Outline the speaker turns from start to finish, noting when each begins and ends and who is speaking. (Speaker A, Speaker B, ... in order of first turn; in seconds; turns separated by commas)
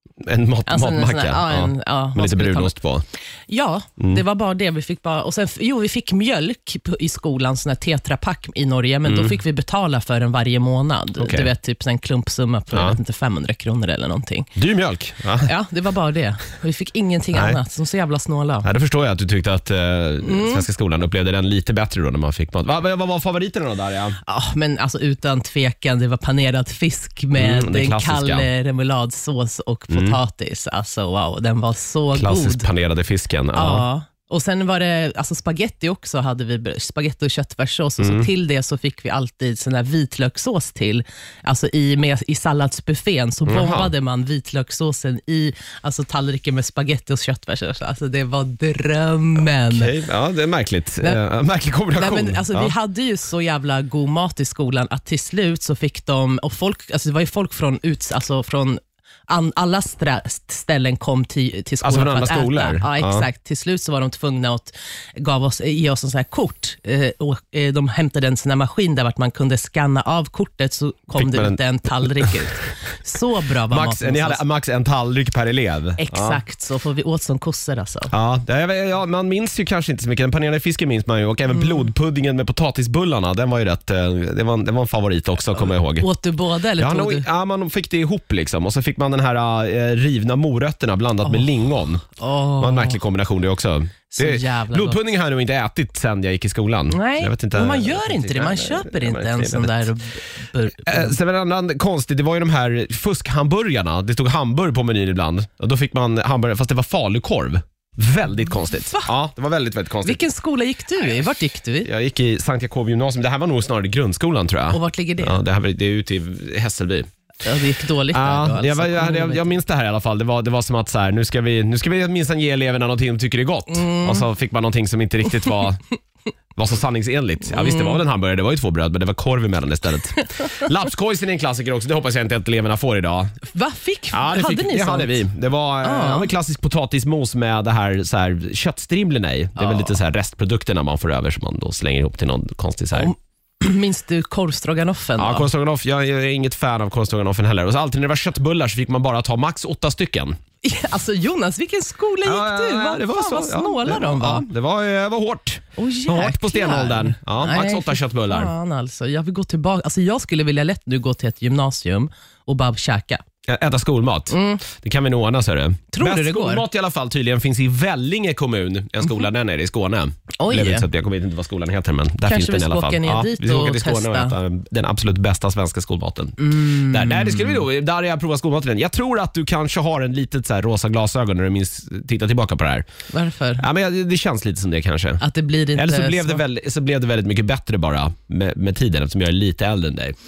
Speaker A: 0.2-3.0, Speaker B: 0.7-2.7, Speaker B: 3.5-14.5, Speaker A: 9.1-9.3, Speaker A: 11.2-11.5, Speaker A: 12.7-13.0, Speaker A: 14.6-15.5, Speaker B: 15.4-18.7, Speaker A: 17.3-17.6, Speaker A: 18.6-24.2, Speaker B: 20.2-20.7, Speaker B: 24.2-32.7, Speaker A: 27.3-28.5, Speaker A: 29.9-30.2, Speaker A: 32.1-33.8, Speaker B: 33.5-49.9, Speaker A: 38.0-38.3, Speaker A: 43.5-43.9, Speaker A: 49.7-52.7, Speaker B: 51.9-74.4, Speaker A: 61.8-63.2, Speaker A: 71.1-72.3, Speaker A: 73.7-76.4, Speaker B: 76.0-78.1, Speaker A: 78.1-86.1, Speaker B: 81.5-81.9, Speaker B: 85.5-87.3, Speaker A: 86.8-92.1, Speaker B: 92.2-93.0, Speaker A: 92.6-99.9, Speaker B: 94.1-95.0, Speaker B: 96.9-101.2, Speaker A: 100.8-110.2, Speaker B: 108.5-109.1, Speaker B: 110.0-111.9, Speaker A: 111.8-117.1, Speaker B: 114.7-115.4, Speaker B: 117.4-119.6, Speaker A: 118.1-125.8, Speaker B: 123.7-124.3, Speaker A: 126.6-133.3, Speaker B: 127.5-128.0, Speaker B: 133.5-135.2, Speaker A: 134.1-143.1, Speaker B: 135.8-136.3, Speaker B: 139.6-139.9, Speaker B: 142.9-145.5, Speaker A: 145.2-150.4, Speaker B: 150.6-154.4, Speaker A: 152.2-158.5, Speaker B: 155.8-163.2, Speaker A: 163.5-182.9, Speaker B: 164.3-164.6, Speaker B: 165.9-166.7, Speaker B: 170.4-170.9, Speaker B: 172.2-174.3, Speaker B: 176.4-177.7, Speaker B: 183.1-183.7, Speaker A: 183.6-185.2, Speaker B: 185.2-186.4, Speaker A: 185.8-190.2